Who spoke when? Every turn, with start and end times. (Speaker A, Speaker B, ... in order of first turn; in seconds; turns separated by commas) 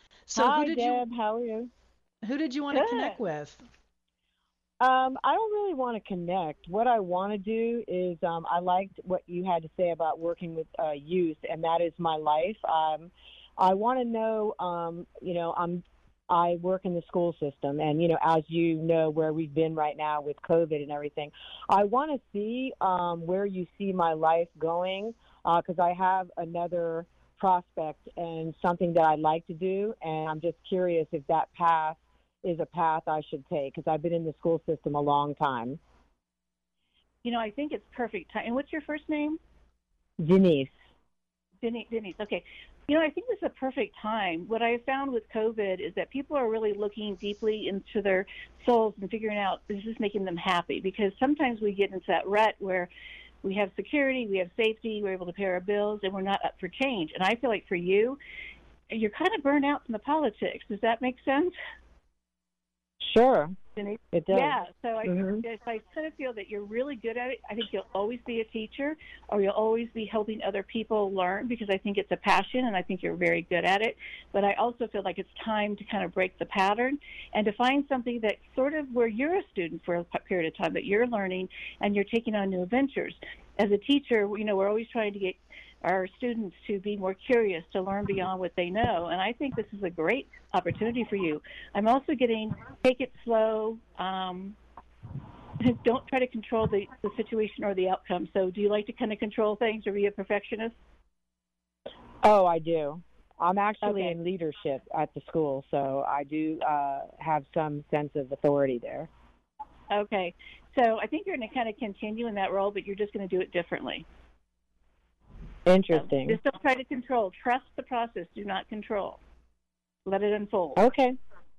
Speaker A: 0.3-1.0, Speaker B: 0.3-1.7, Speaker A: 2.2-3.6, Speaker C: 2.7-3.2, Speaker B: 4.8-35.8, Speaker C: 37.2-39.4, Speaker B: 40.2-40.8, Speaker C: 41.6-52.9, Speaker C: 53.4-58.2, Speaker C: 58.9-61.5, Speaker B: 63.0-63.5, Speaker C: 63.8-94.6, Speaker B: 64.1-65.4, Speaker C: 95.6-100.7, Speaker B: 102.2-109.1, Speaker C: 103.8-104.1, Speaker C: 109.9-114.0, Speaker B: 115.7-116.4, Speaker C: 115.9-119.2, Speaker C: 120.0-120.8, Speaker B: 120.8-121.2